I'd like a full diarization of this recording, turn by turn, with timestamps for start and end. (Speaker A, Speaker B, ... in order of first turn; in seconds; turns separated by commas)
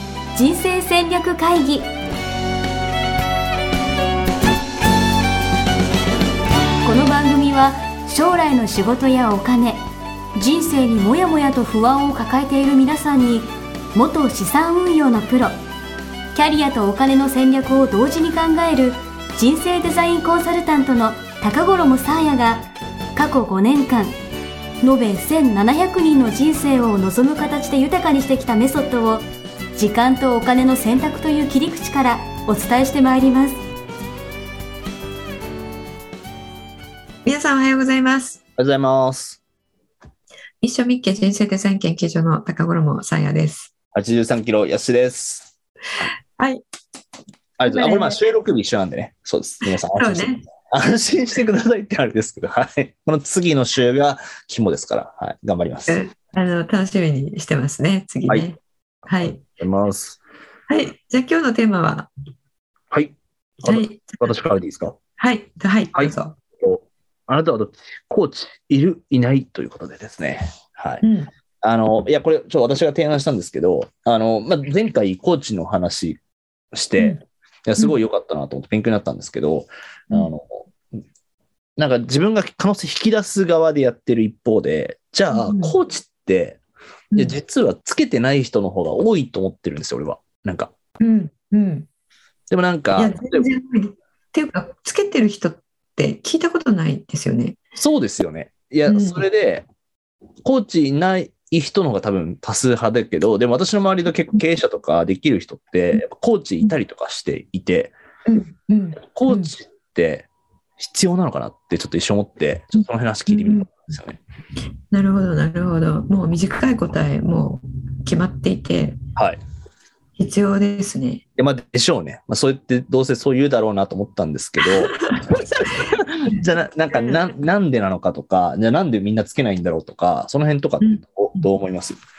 Speaker A: 0.3-1.9, Speaker A: 6.8-9.8, Speaker A: 10.3-15.6, Speaker A: 16.3-24.1, Speaker A: 24.8-33.6, Speaker B: 37.2-38.4, Speaker C: 38.6-39.4, Speaker B: 40.6-43.7, Speaker C: 43.9-45.5, Speaker B: 46.4-46.6, Speaker C: 47.6-56.0, Speaker B: 47.6-48.2, Speaker B: 49.6-50.4, Speaker B: 55.9-59.4, Speaker C: 59.2-60.2, Speaker B: 60.7-62.1, Speaker C: 62.9-65.0, Speaker B: 63.6-64.3, Speaker B: 65.2-66.3, Speaker C: 65.9-71.0, Speaker B: 71.0-71.3, Speaker C: 71.6-76.2, Speaker C: 76.7-80.7, Speaker C: 81.8-86.6, Speaker B: 85.3-85.7, Speaker B: 87.1-87.4, Speaker C: 87.1-90.7, Speaker B: 91.0-91.9, Speaker C: 92.5-93.5, Speaker B: 92.9-97.6, Speaker C: 97.8-99.6, Speaker B: 98.9-99.2, Speaker C: 100.4-107.9, Speaker B: 108.2-109.5, Speaker C: 109.1-110.3, Speaker C: 110.8-114.2, Speaker B: 112.8-113.7, Speaker B: 114.9-119.0, Speaker B: 120.2-121.2, Speaker C: 121.4-132.0, Speaker B: 124.7-127.3, Speaker B: 130.8-131.4